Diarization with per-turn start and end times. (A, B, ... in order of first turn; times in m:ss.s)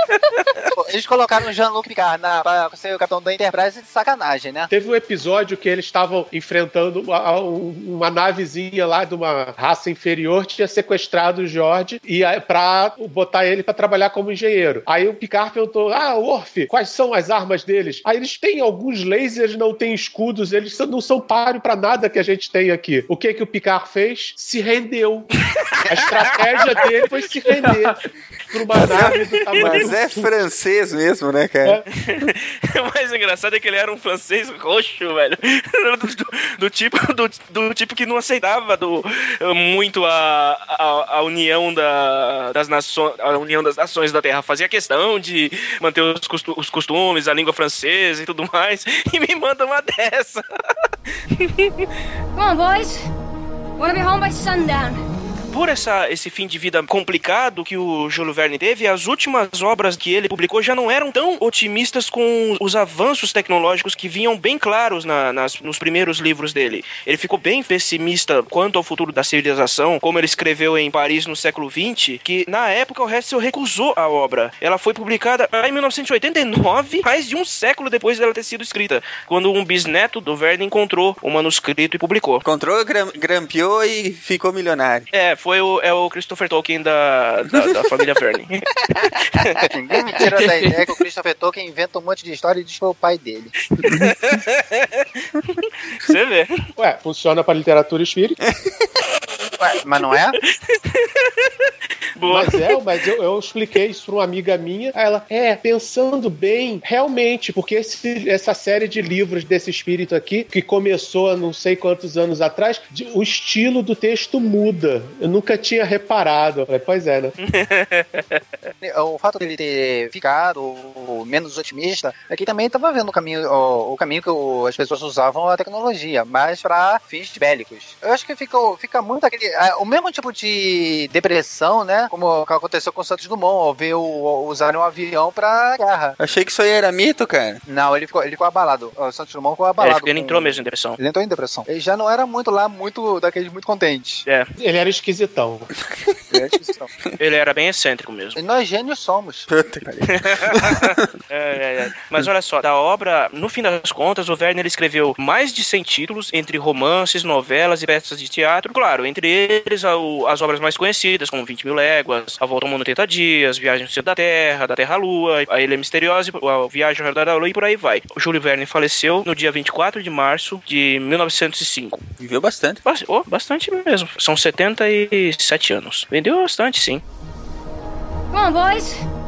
0:00.4-0:00.6 A
0:00.7-0:04.7 B
0:04.7-0:25.3 C
0:25.8-0:28.0 C
0:28.5-0:30.3 C
0:28.8-0:31.8 D
0:32.0-0:50.4 A
0:51.4-0:51.9 A
0:52.3-0:53.1 E
0:53.8-0:55.0 E
0:55.5-1:22.4 A
1:22.4-1:25.1 D
1:25.1-1:29.6 A
1:29.6-1:33.5 B
1:30.3-1:30.7 A
1:33.7-1:36.5 A
1:36.8-1:38.4 C
1:39.6-1:40.4 B
1:40.4-1:42.5 A
1:42.3-1:57.3 C
1:57.4-1:58.4 A
1:58.8-2:16.2 B
2:16.2-2:17.6 D
2:17.6-2:24.2 B
2:19.8-2:21.0 A
2:24.6-2:25.7 C
2:26.3-2:26.9 B
2:27.2-2:28.4 A
2:28.3-2:29.5 B
2:29.5-2:31.0 D
2:30.2-2:52.0 A
2:52.2-2:52.8 D
2:52.8-2:57.0 A
2:58.3-2:59.0 E